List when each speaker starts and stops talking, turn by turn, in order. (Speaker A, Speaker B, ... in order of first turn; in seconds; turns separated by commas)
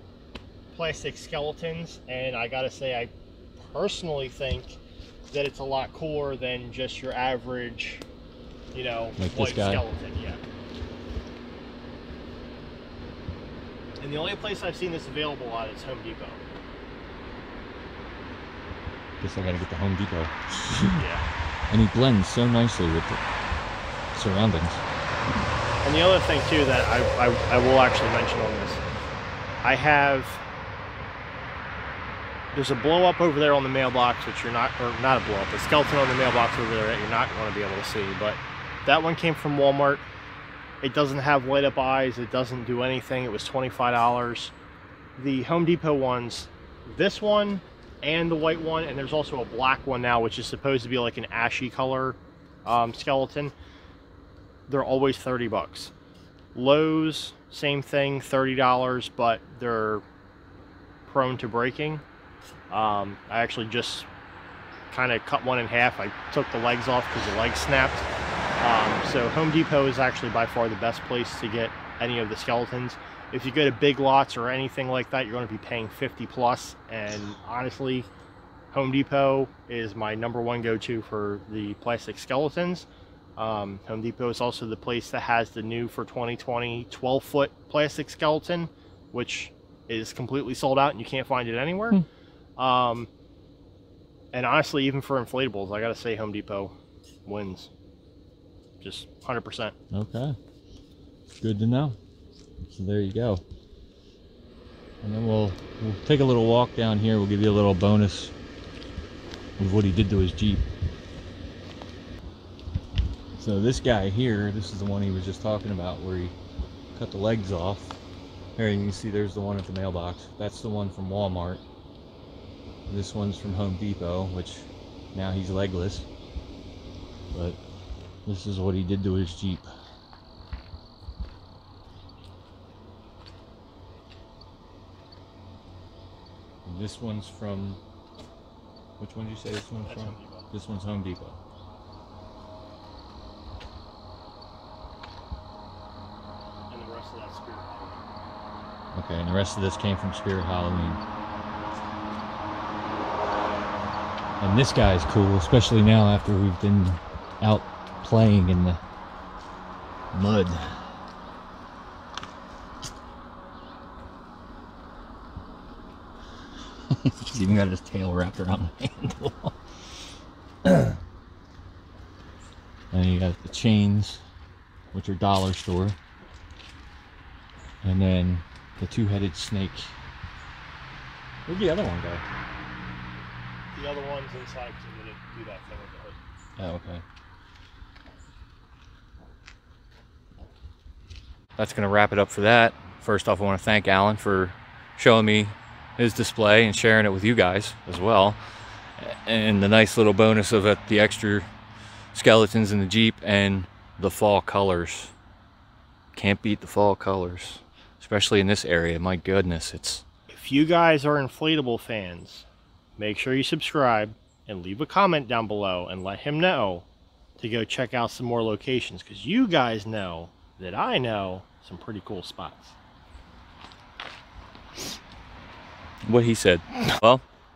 Speaker A: 0.7-8.0, Speaker A: 8.7-10.4, Speaker B: 9.2-9.8, Speaker A: 14.0-16.4, Speaker B: 19.2-21.0, Speaker A: 20.8-21.2, Speaker B: 21.7-23.2, Speaker B: 24.1-24.8, Speaker A: 25.8-28.8, Speaker A: 29.6-30.4, Speaker A: 32.5-40.0, Speaker A: 40.8-44.5, Speaker A: 45.2-53.5, Speaker A: 54.7-55.9, Speaker A: 56.5-60.0, Speaker A: 61.1-62.0, Speaker A: 62.7-64.1, Speaker A: 64.9-68.1, Speaker A: 68.6-78.1, Speaker A: 78.7-92.0, Speaker A: 92.6-93.1, Speaker A: 94.3-96.7, Speaker A: 97.2-97.7, Speaker A: 98.8-99.7, Speaker B: 99.9-100.3, Speaker B: 101.4-102.0, Speaker B: 102.7-103.4, Speaker B: 105.0-108.3, Speaker B: 109.6-110.6, Speaker B: 113.3-116.3, Speaker B: 116.9-118.0, Speaker B: 118.6-121.6, Speaker B: 122.9-126.1, Speaker B: 127.3-127.6, Speaker B: 128.2-129.7, Speaker B: 136.7-137.8, Speaker B: 139.0-141.4, Speaker A: 139.8-140.5, Speaker A: 146.7-148.0, Speaker B: 148.9-151.0, Speaker B: 154.4-158.8, Speaker B: 160.1-160.8, Speaker B: 166.9-169.5, Speaker B: 170.6-171.0, Speaker B: 172.9-174.2, Speaker B: 174.9-175.9, Speaker B: 177.8-179.9, Speaker B: 181.5-182.2, Speaker A: 183.7-186.2, Speaker B: 186.6-187.0, Speaker B: 191.6-198.4, Speaker B: 199.0-201.5, Speaker B: 202.1-205.1, Speaker B: 206.1-210.0, Speaker A: 210.3-212.5, Speaker A: 213.0-216.8, Speaker A: 217.4-222.8, Speaker B: 226.0-227.2